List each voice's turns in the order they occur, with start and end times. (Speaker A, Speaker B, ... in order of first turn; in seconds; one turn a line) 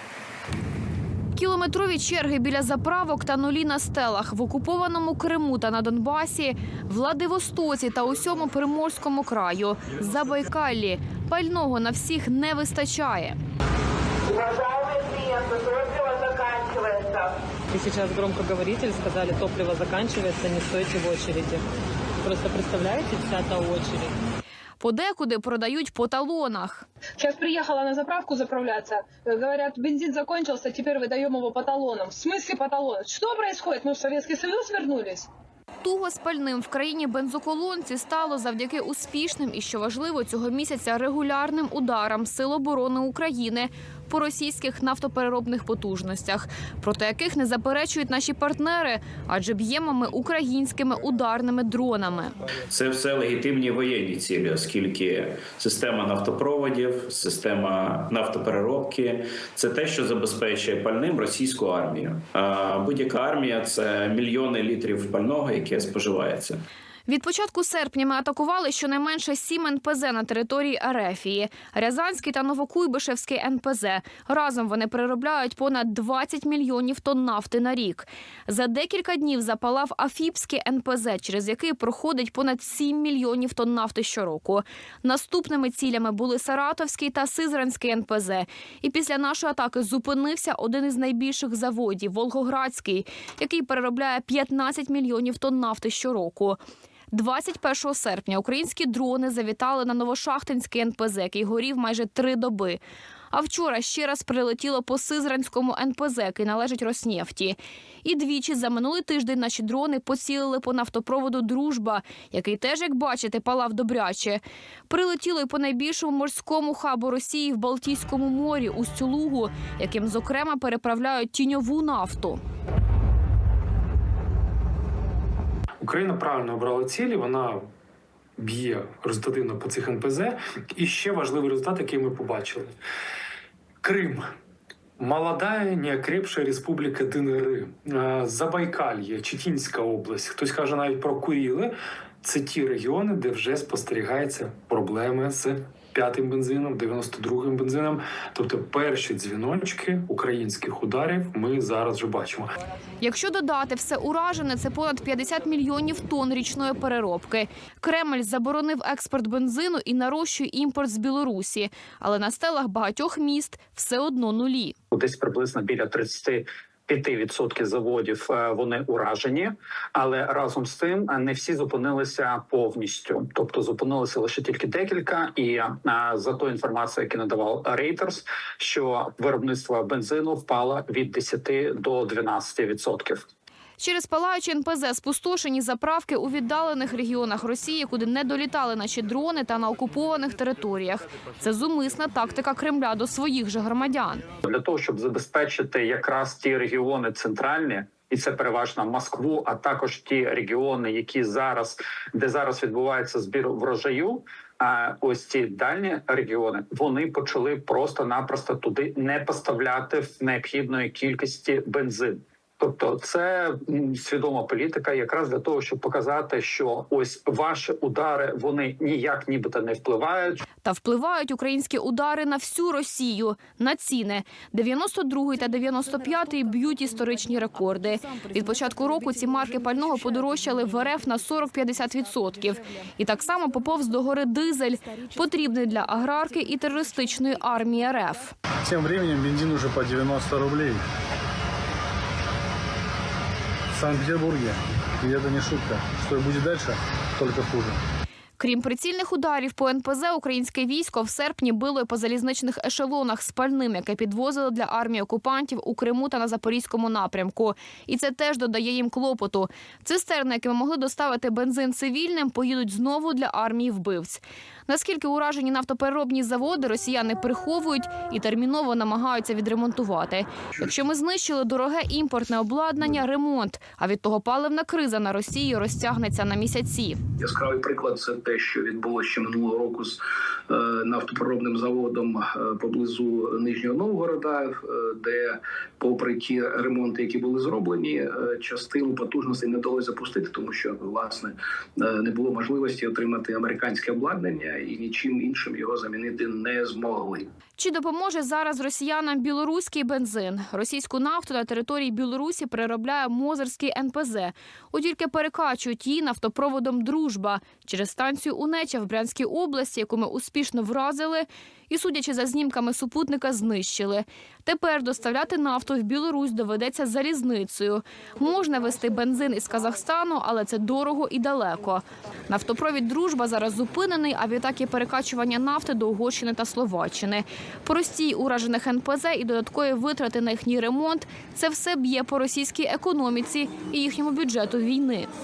Speaker A: 1.4-13.4
Speaker B: 17.7-21.6
Speaker B: 22.2-24.1
Speaker A: 24.8-26.9
Speaker C: 27.2-35.3
Speaker A: 35.8-52.3
Speaker D: 52.7-66.6
Speaker A: 67.1-96.6
Speaker A: 97.1-102.8
Speaker A: 103.3-122.4
Speaker E: 125.8-127.6
Speaker E: 128.4-132.7
Speaker E: 133.8-134.2
Speaker E: 135.0-152.5
Speaker A: 153.0-164.7
Speaker F: 164.9-183.2
Speaker A: 183.8-194.2
Speaker F: 194.4-220.4
Speaker A: 220.6-238.3
Speaker G: 238.6-240.8
Speaker G: 243.7-247.8
Speaker A: 248.4-277.0
Speaker H: 277.2-297.3
Speaker A: 297.6-335.1